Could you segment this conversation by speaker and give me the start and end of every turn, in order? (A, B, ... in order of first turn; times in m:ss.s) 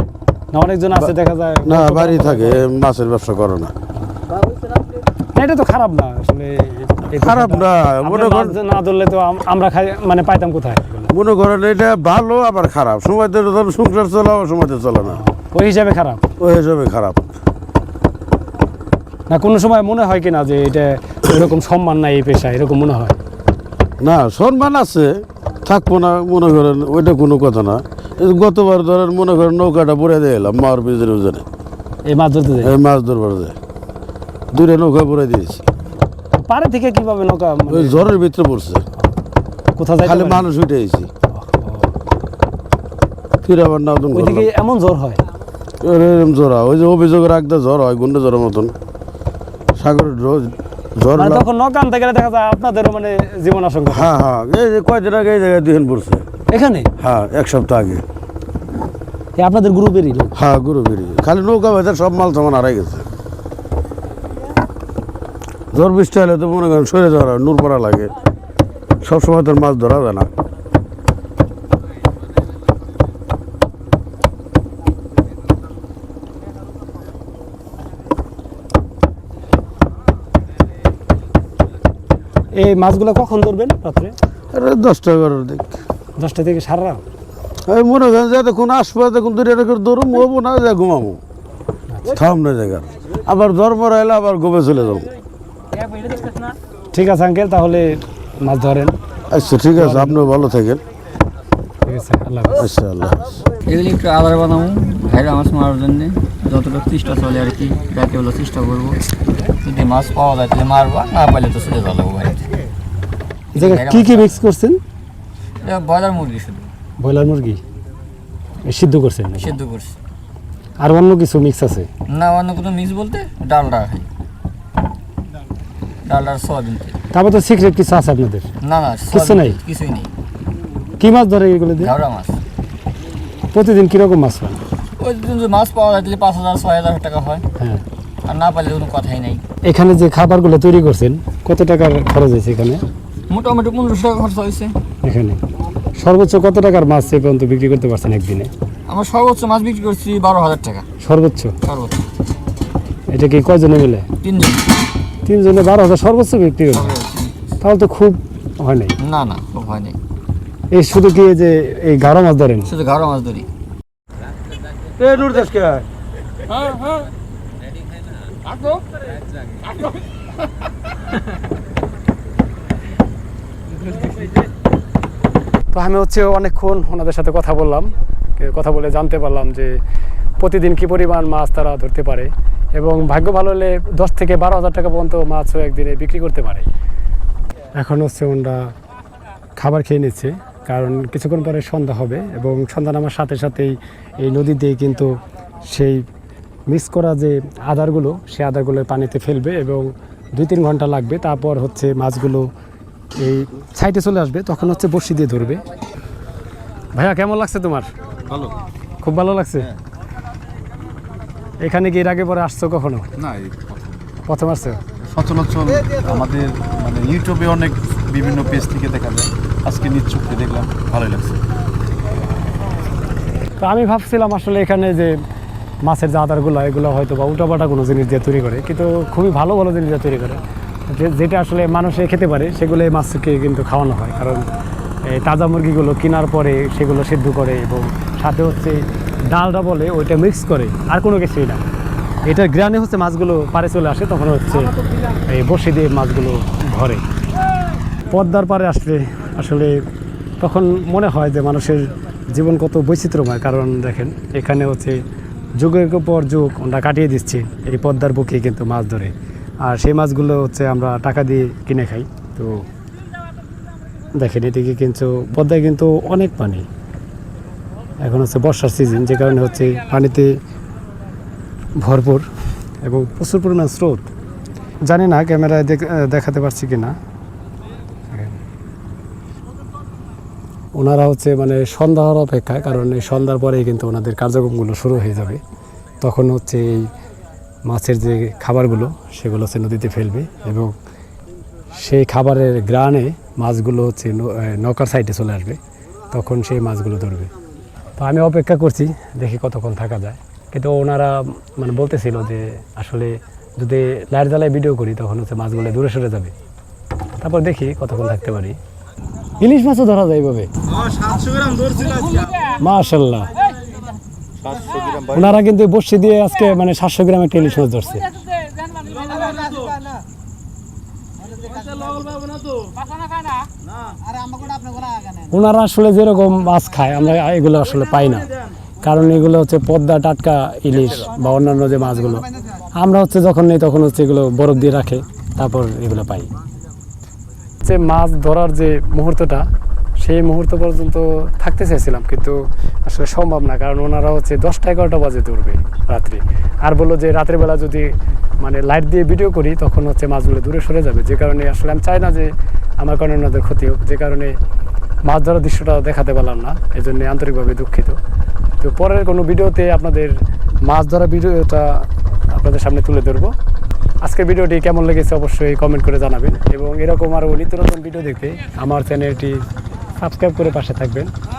0:00.5-0:02.6 A
0:01.6-0:03.7 B
0:05.3-0:11.1 A
0:07.2-0:08.6 B
0:11.1-0:15.2 B
0:15.1-0:16.2 A
0:16.4-0:17.3 B
0:19.3-0:23.2 A
0:24.0-0:31.4 B
0:32.0-0:32.8 A
0:32.6-0:33.6 B
0:34.5-0:35.6 B
0:36.4-0:38.2 A
0:37.7-0:38.8 B
0:39.8-0:40.5 A
0:40.0-0:41.1 B
0:41.4-0:41.9 A
0:43.4-0:44.5 B
0:44.1-0:45.2 A
0:45.8-0:48.7 B
0:49.8-0:51.5 B
0:51.2-0:54.1 A
0:53.9-0:56.2 B
0:56.5-0:56.9 A
0:57.0-0:58.0 B
0:59.4-1:00.3 A
1:00.4-1:03.0 B
1:05.7-1:08.1 B
1:09.0-1:10.3 B
1:22.5-1:24.2 A
1:24.5-1:25.8 B
1:26.2-1:27.0 A
1:27.7-1:31.2 B
1:32.1-1:35.1 B
1:36.9-1:38.9 A
1:39.3-1:40.8 B
1:39.8-1:40.2 A
1:41.8-1:42.7 A
1:42.6-1:43.4 B
1:43.6-1:49.0 C
1:49.6-1:52.5 C
1:53.5-1:54.4 C
1:53.6-1:54.8 A
1:55.6-1:56.7 C
1:57.0-1:57.6 A
1:58.6-1:59.6 A
1:59.4-2:00.0 C
2:00.8-2:01.9 A
2:02.1-2:04.1 C
2:06.0-2:07.0 C
2:07.1-2:08.5 A
2:08.6-2:10.1 C
2:09.1-2:09.6 A
2:11.0-2:11.9 A
2:11.8-2:12.4 C
2:13.5-2:14.6 A
2:15.0-2:17.4 C
2:17.6-2:17.8 A
2:18.2-2:19.4 C
2:19.6-2:22.8 A
2:23.3-2:24.8 C
2:25.0-2:25.4 A
2:26.0-2:28.5 A
2:28.9-2:30.9 C
2:31.0-2:31.6 A
2:31.6-2:32.0 C
2:33.1-2:34.1 A
2:34.2-2:34.7 C
2:35.3-2:36.9 A
2:36.7-2:37.4 C
2:37.6-2:39.0 A
2:39.0-2:40.0 C
2:40.7-2:42.7 A
2:42.7-2:43.5 C
2:45.0-2:45.9 B
2:55.7-2:59.7 A
3:00.4-3:06.7 A
3:07.8-3:08.7 A
3:09.6-3:15.1 A
3:15.6-3:16.0 A
3:16.7-3:22.5 A
3:23.2-3:25.6 A
3:27.0-3:27.9 A
3:29.0-3:29.7 A
3:31.6-3:33.1 A
3:33.2-3:33.7 D
3:34.3-3:34.8 A
3:35.1-3:41.4 D
3:43.6-3:45.1 A
3:45.8-3:54.4 A
3:55.1-4:01.6 A
4:02.3-4:07.0 A
4:08.1-4:09.8 A
4:10.4-4:15.0 A
4:15.6-4:22.6 A
4:24.2-4:26.7 A
4:28.0-4:30.4 A
4:31.8-4:32.3 A
4:32.8-4:34.1 A
4:34.9-4:37.0 A
4:38.1-4:38.4 A
4:40.8-4:45.4 A
4:46.0-4:46.9 A
4:47.7-4:50.7 A
4:51.7-4:55.6 A
4:56.1-4:57.3 A
4:58.0-5:06.3 A
5:07.2-5:08.6 A
5:09.4-5:10.5 A
5:10.9-5:12.3 D
5:12.6-5:13.4 A
5:14.4-5:15.0 C
5:14.6-5:14.8 D
5:15.1-5:18.2 A
5:25.3-5:28.3 A
5:28.8-5:36.3 A
5:37.6-5:39.5 A
5:40.0-5:54.4 A
5:55.1-5:58.0 A
5:58.6-6:03.3 A
6:04.0-6:09.4 A
6:10.0-6:11.1 A